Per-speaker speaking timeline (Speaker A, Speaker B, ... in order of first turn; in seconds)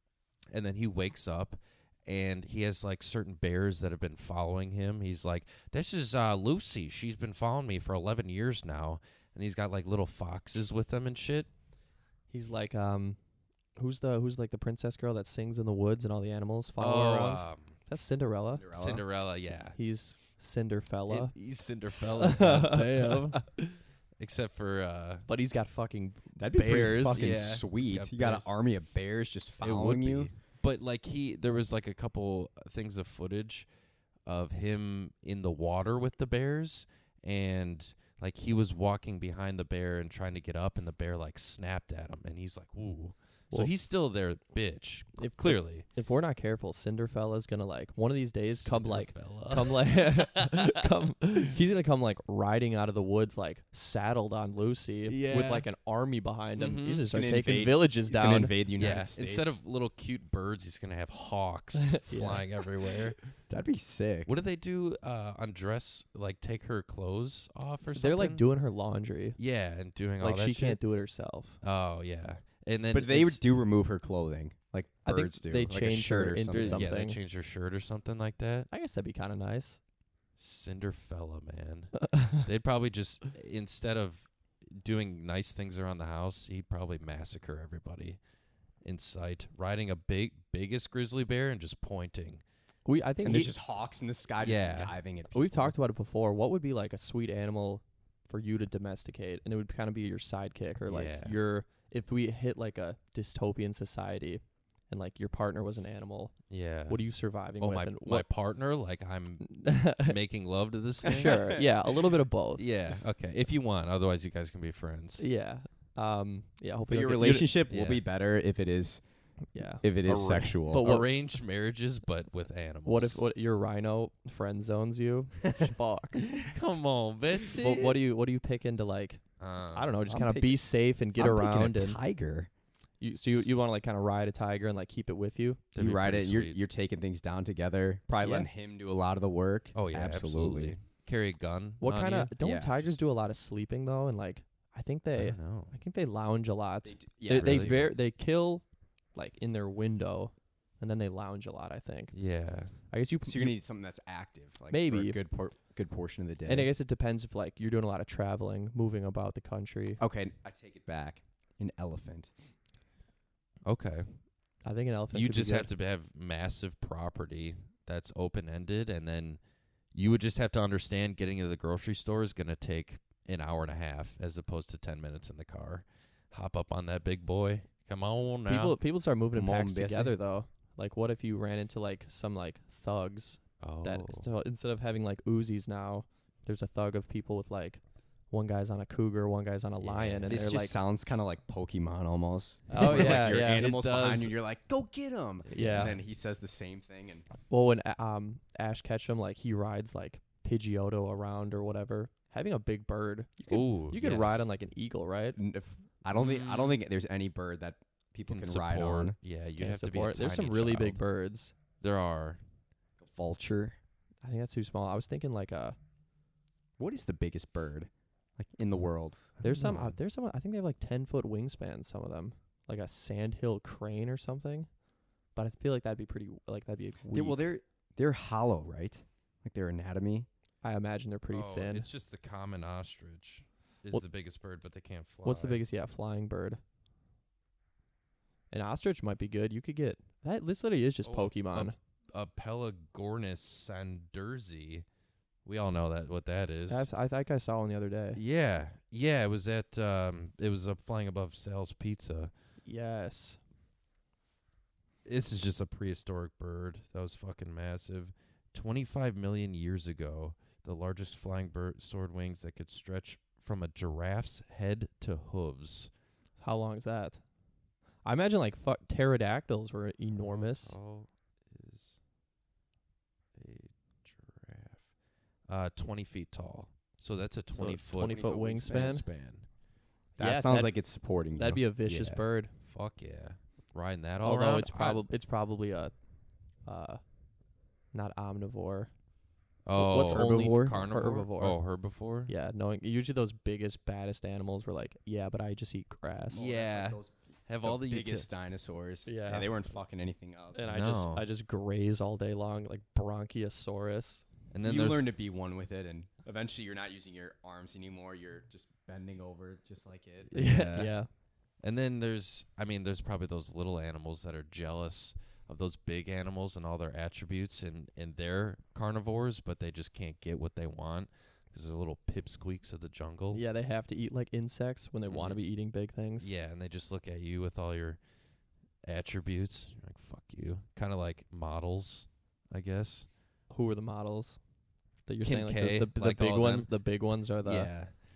Speaker A: 0.5-11.5, 16.8-17.8, 18.7-19.8, 21.1-23.6, 24.2-25.3, 27.1-28.5, 29.6-33.7, 34.3-45.9, 48.5-50.8, 55.1-55.7, 56.6-57.1, 58.8-63.2, 64.3-68.5, 69.4-70.8, 71.6-73.4, 76.5-78.7, 80.4-88.2, 88.8-92.4, 94.4-95.0, 100.9-101.3, 106.5-107.0, 107.6-111.6, 112.6-115.3, 117.7-118.0, 120.1-123.2, 126.3-128.0, 129.4-129.9, 135.7-136.6, 139.7-142.3, 145.2-145.8, 147.3-147.9, 152.1-152.8, 163.7-164.2, 165.1-169.4, 169.9-178.8, 183.6-184.3, 189.8-190.3, 192.8-194.4, 195.5-196.0, 203.5-204.5, 206.1-206.8, 208.3-211.0, 211.8-212.4, 219.5-219.9, 231.3-235.6, 241.0-244.8, 245.5-246.9, 248.2-252.3, 255.1-265.9, 270.2-272.0, 273.4-274.9, 275.5-279.5, 282.6-285.0, 289.7-292.3, 296.4-298.3, 300.7-301.3, 304.5-305.1, 310.3-311.0, 311.6-323.4, 325.1-325.4, 326.2-328.0, 328.8-333.1, 335.2-336.7, 337.4-337.9
Speaker B: 12.3-13.2, 13.8-18.6, 19.8-21.3, 22.2-23.4, 25.3-27.2, 45.2-58.5, 62.0-62.6, 68.0-69.4, 70.2-71.6, 75.0-77.2, 78.7-79.8, 92.9-93.5, 95.3-106.3, 106.9-108.3, 109.4-110.2, 111.0-112.7, 115.2-117.5, 119.5-121.1, 122.8-126.3, 127.5-129.2, 129.7-132.0, 133.0-135.7, 138.2-138.5, 141.8-152.1, 152.9-153.6, 154.7-155.2, 156.4-160.0, 164.7-165.7, 178.5-190.8, 192.7-193.7, 195.5-196.0, 197.5-205.4, 209.6-211.5, 214.2-215.8, 219.4-224.7, 225.3-227.5, 230.6-231.9, 235.2-236.6, 238.5-241.8, 246.7-248.2, 252.7-253.4, 266.4-267.2, 268.1-270.8, 277.6-279.0, 280.2-280.8, 281.4-282.5, 284.2-285.9, 286.7-287.0, 287.9-288.9, 289.8-291.6, 292.3-296.5, 299.1-299.5, 300.6-304.2, 310.3-311.1, 323.3-326.3, 333.5-334.4, 335.1-337.7
Speaker C: 18.6-19.1, 26.4-30.3, 57.1-59.6, 63.5-64.3, 72.9-77.0, 93.2-95.7, 111.3-111.7, 116.9-119.0, 119.8-120.9, 130.1-130.6, 131.2-132.5, 135.8-140.8, 142.4-142.9, 146.8-147.9, 153.2-156.7, 160.0-162.3, 179.3-180.2, 190.3-197.3, 205.4-209.2, 213.0-213.8, 216.8-219.3, 227.1-230.3, 278.1-278.7, 280.2-282.2, 289.8-290.7, 296.3-300.6, 304.6-310.4